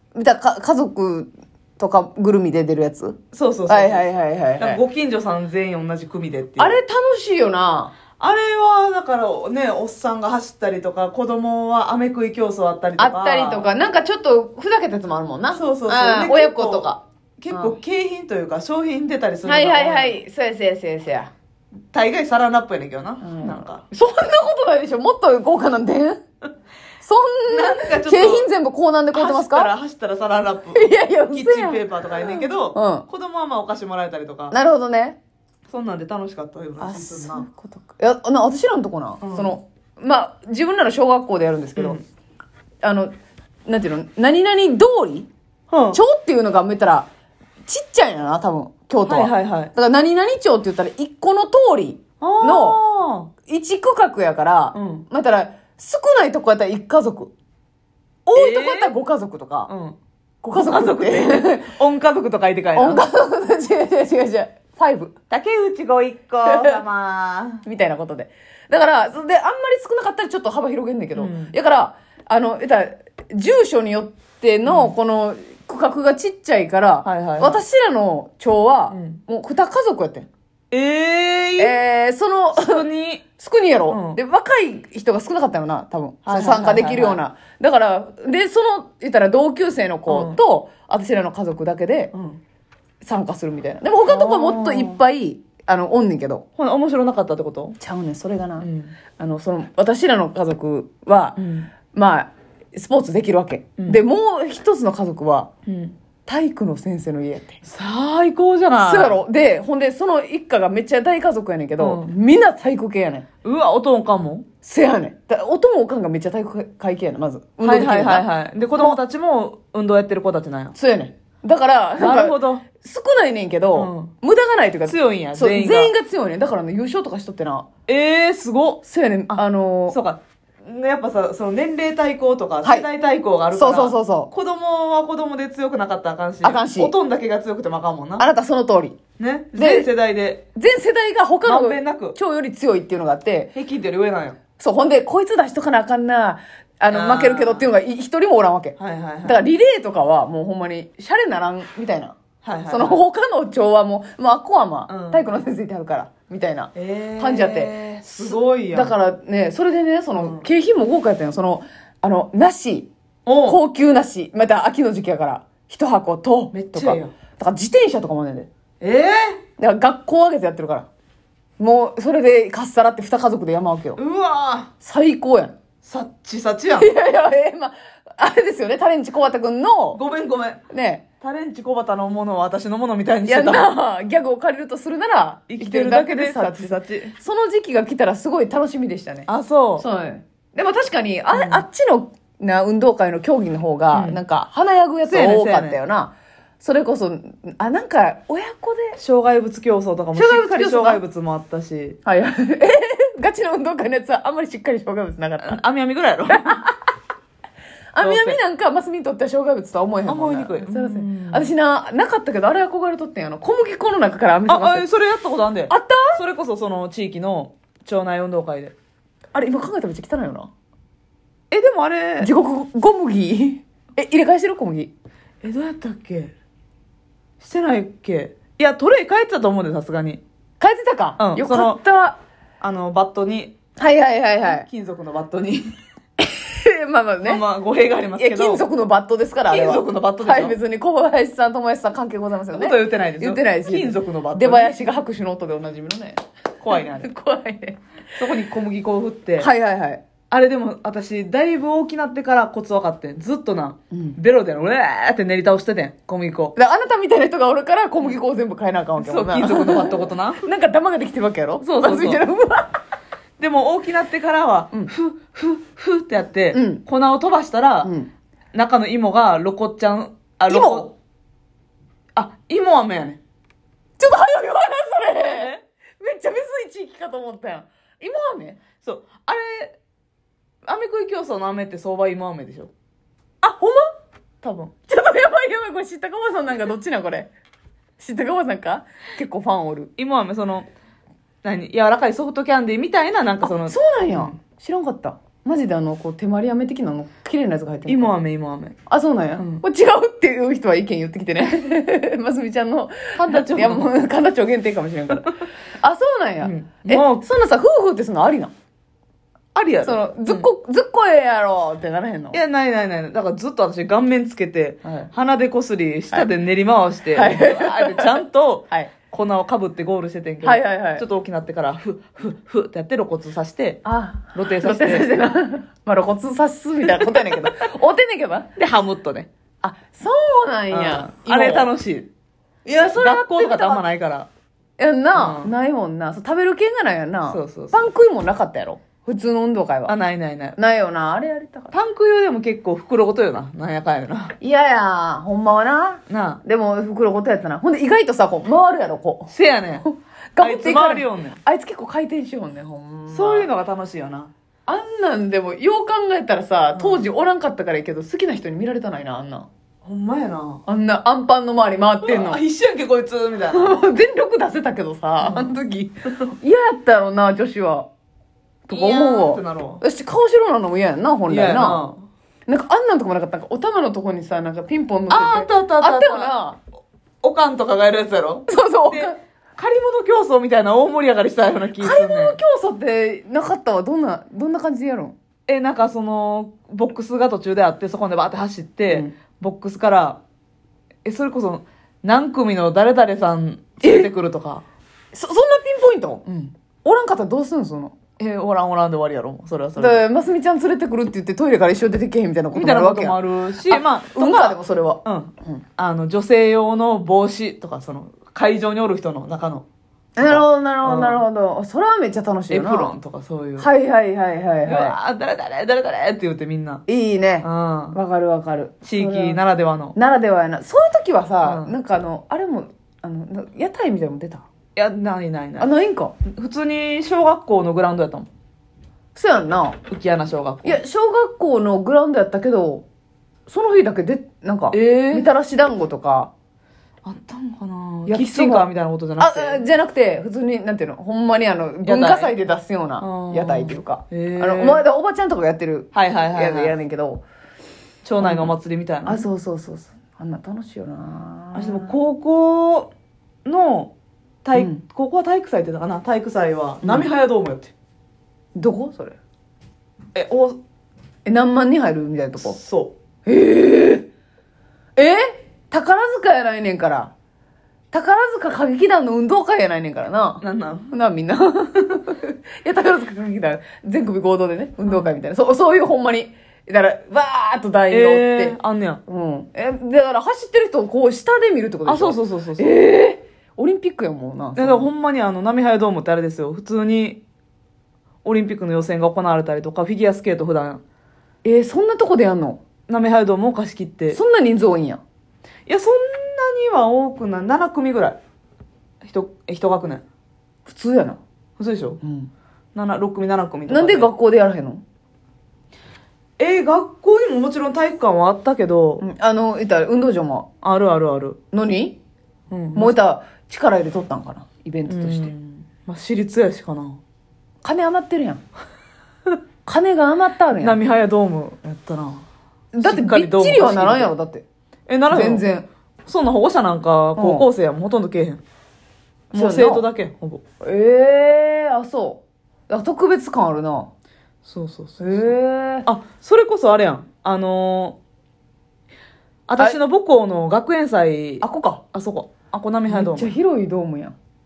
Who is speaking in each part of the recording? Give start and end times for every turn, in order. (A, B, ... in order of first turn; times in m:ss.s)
0:00.1-0:04.8 A
0:03.3-0:06.8 B
0:06.6-0:07.9 A
0:08.2-0:13.7 B
0:13.0-0:17.8 A
0:15.5-0:20.2 B
0:19.4-0:21.3 A
0:21.9-0:23.8 B
0:23.2-0:26.2 A
0:27.0-0:29.7 A
0:27.5-0:28.5 B
0:29.1-0:34.6 B
0:30.7-0:33.1 A
0:34.5-0:35.2 A
0:35.7-0:37.5 B
0:36.8-0:42.0 A
0:39.2-0:39.5 B
0:41.8-0:42.0 B
0:42.8-0:43.1 A
0:43.6-0:45.3 A
0:45.7-0:46.0 B
0:45.9-0:47.1 A
0:47.7-0:52.8 A
0:49.0-0:49.7 B
0:52.2-0:53.3 B
0:53.4-0:57.3 A
0:54.7-0:55.1 B
0:58.2-0:58.9 B
0:58.3-0:59.7 A
0:59.7-1:00.0 B
1:00.4-1:01.7 A
1:00.5-1:03.0 B
1:02.7-1:05.1 A
1:05.3-1:07.6 B
1:06.4-1:06.8 A
1:07.6-1:20.3 A
1:11.1-1:11.5 B
1:14.6-1:14.9 B
1:17.0-1:17.6 B
1:18.9-1:19.2 B
1:20.7-1:21.8 B
1:21.6-1:22.8 A
1:22.5-1:23.2 B
1:23.4-1:32.1 A
1:23.9-1:24.2 B
1:26.2-1:27.2 B
1:30.1-1:30.4 B
1:32.1-1:32.4 B
1:33.0-1:36.4 A
1:34.1-1:35.0 B
1:36.6-1:37.8 B
1:37.8-1:45.5 A
1:38.6-1:38.9 B
1:41.4-1:41.7 B
1:45.6-1:46.0 B
1:46.3-1:47.6 A
1:47.6-1:49.2 B
1:48.8-1:53.2 A
1:51.8-1:52.1 B
1:53.4-1:54.4 B
1:54.6-1:59.0 A
1:57.6-2:00.7 B
2:00.7-2:07.7 A
2:02.0-2:02.6 B
2:03.7-2:04.1 B
2:04.8-2:05.9 B
2:07.9-2:18.2 B
2:08.8-2:10.0 A
2:13.5-2:14.3 A
2:16.4-2:16.9 A
2:18.2-2:19.0 A
2:19.2-2:20.4 B
2:19.6-2:19.9 A
2:20.5-2:23.5 A
2:21.4-2:22.2 B
2:23.5-2:24.4 B
2:24.6-2:42.9 A
2:26.9-2:27.7 B
2:28.8-2:29.5 B
2:32.4-2:33.0 B
2:34.9-2:35.2 B
2:36.7-2:38.9 B
2:40.1-2:40.4 B
2:43.2-2:43.6 B
2:43.4-2:48.5 A
2:46.5-2:47.1 B
2:48.8-2:49.4 B
2:49.6-2:50.9 A
2:51.6-2:54.0 A
2:54.0-2:54.7 B
2:54.8-2:55.5 A
2:55.8-2:56.9 B
2:56.8-3:00.0 A
2:59.9-3:00.6 B
3:00.7-3:01.0 A
3:01.2-3:03.7 B
3:03.3-3:19.0 A
3:05.5-3:07.1 B
3:09.3-3:09.8 B
3:11.3-3:11.6 B
3:13.9-3:14.2 B
3:15.0-3:15.8 B
3:19.0-3:22.0 B
3:20.1-3:21.0 A
3:22.0-3:25.6 A
3:25.4-3:26.6 B
3:26.3-3:26.9 A
3:27.9-3:34.8 A
3:28.0-3:28.4 B
3:30.0-3:31.5 B
3:34.5-3:38.7 B
3:35.7-3:36.2 A
3:39.3-3:40.5 A
3:41.5-3:42.3 B
3:42.2-3:44.9 A
3:45.4-3:46.3 B
3:47.4-3:50.2 B
3:50.6-3:52.2 A
3:51.2-3:51.8 B
3:52.6-3:53.5 B
3:53.8-3:54.7 A
3:54.4-3:55.6 B
3:56.2-3:57.4 A
3:57.2-3:58.6 B
3:58.2-4:07.8 A
3:59.5-4:00.6 B
4:02.5-4:04.9 B
4:06.6-4:07.1 B
4:08.2-4:09.5 B
4:09.4-4:10.0 A
4:10.3-4:16.5 B
4:13.9-4:14.2 A
4:16.6-4:22.7 A
4:19.0-4:20.4 B
4:21.6-4:22.2 B
4:23.4-4:27.9 B
4:26.5-4:26.8 A
4:27.8-4:28.1 A
4:28.5-4:30.9 B
4:30.5-4:30.9 A
4:32.2-4:33.2 B
4:34.0-4:38.6 A
4:35.2-4:35.6 B
4:38.8-4:39.8 B
4:40.6-4:42.7 B
4:43.4-4:43.9 A
4:44.4-4:44.7 B
4:44.9-4:47.3 A
4:48.0-4:49.9 A
4:50.0-4:50.7 B
4:51.4-4:54.3 B
4:53.4-4:58.1 A
4:57.9-4:58.8 B
4:58.9-5:08.5 A
4:59.4-4:59.6 B
5:03.1-5:03.9 B
5:06.4-5:07.2 B
5:09.5-5:10.5 B
5:09.8-5:12.4 A
5:12.3-5:23.8 B
5:14.8-5:15.1 A
5:17.1-5:18.9 A
5:20.4-5:21.0 A
5:23.8-5:28.5 A
5:24.3-5:25.1 B
5:26.9-5:27.3 B
5:28.6-5:29.3 B
5:29.6-5:31.7 A
5:30.7-5:32.1 B
5:32.6-5:33.8 A
5:32.9-5:34.3 B
5:34.8-5:39.9 A
5:35.1-5:35.5 B
5:37.3-5:37.8 B
5:39.9-5:40.6 B
5:40.6-5:41.7 A
5:41.7-5:44.4 B
5:44.4-5:49.3 A
5:46.1-5:46.4 B
5:49.3-5:49.8 B
5:49.8-5:53.5 A
5:50.4-5:51.4 B
5:53.1-5:54.3 B
5:54.7-5:59.5 A
5:56.7-5:57.0 B
5:59.8-6:00.6 B
6:00.6-6:02.4 A
6:02.0-6:03.8 B
6:03.5-6:07.9 A
6:05.2-6:05.5 B
6:08.7-6:11.8 A
6:08.7-6:09.8 B
6:11.3-6:12.0 B
6:12.5-6:16.6 A
6:15.1-6:16.3 B
6:17.2-6:22.4 B
6:18.5-6:19.2 A
6:21.8-6:25.1 A
6:25.5-6:30.2 B
6:28.9-6:29.1 A
6:31.0-6:34.6 B
6:33.8-6:34.1 A
6:35.1-6:38.0 A
6:38.2-6:40.0 B
6:39.8-6:45.6 A
6:42.5-6:49.6 B
6:50.2-6:53.0 A
6:50.2-6:51.2 B
6:52.5-6:53.7 B
6:53.6-6:55.0 A
6:54.6-6:56.8 B
6:56.9-6:59.4 A
6:57.4-6:58.0 B
6:58.8-7:00.0 B
6:59.9-7:04.4 A
7:01.4-7:01.7 B
7:04.8-7:05.7 B
7:05.6-7:06.1 A
7:06.2-7:08.3 B
7:09.1-7:09.8 A
7:09.9-7:10.8 B
7:10.6-7:12.8 A
7:13.5-7:16.3 A
7:14.7-7:15.3 B
7:17.0-7:19.6 B
7:18.1-7:18.6 A
7:19.2-7:27.2 A
7:21.8-7:22.3 B
7:23.0-7:24.8 B
7:25.9-7:26.7 B
7:28.0-7:29.2 B
7:28.2-7:28.5 A
7:29.0-7:31.9 A
7:31.5-7:32.9 B
7:33.4-7:33.9 B
7:34.4-7:37.7 B
7:34.5-7:34.8 A
7:36.8-7:37.1 A
7:38.5-7:39.2 A
7:40.1-7:40.6 B
7:41.2-7:42.6 A
7:42.4-7:42.9 B
7:43.2-7:44.1 A
7:45.0-7:47.1 A
7:47.9-8:04.9 A
7:50.4-7:50.9 B
7:57.9-7:59.0 B
8:01.8-8:02.7 B
8:04.6-8:07.2 B
8:08.2-8:10.8 B
8:11.4-8:12.6 A
8:12.9-8:14.2 B
8:14.1-8:15.0 A
8:15.7-8:18.2 B
8:19.0-8:20.0 B
8:20.6-8:21.2 A
8:21.6-8:22.0 B
8:22.0-8:22.3 A
8:22.7-8:24.1 B
8:23.7-8:24.8 A
8:26.4-8:29.0 B
8:29.0-8:30.5 A
8:30.6-8:31.4 B
8:31.5-8:32.0 A
8:32.5-8:33.0 B
8:32.7-8:35.3 A
8:34.9-8:37.0 B
8:37.6-8:38.4 A
8:39.6-8:40.8 A
8:40.6-8:42.2 B
8:42.7-8:44.4 A
8:42.8-8:44.1 B
8:44.9-8:45.4 B
8:45.1-8:45.7 A
8:46.0-8:48.4 B
8:47.2-8:47.5 A
8:49.3-8:50.4 B
8:49.3-8:49.8 A
8:50.6-8:53.9 A
8:54.4-8:58.0 B
8:55.0-8:55.9 A
8:59.5-9:03.3 B
9:01.4-9:01.8 A
9:02.9-9:04.2 A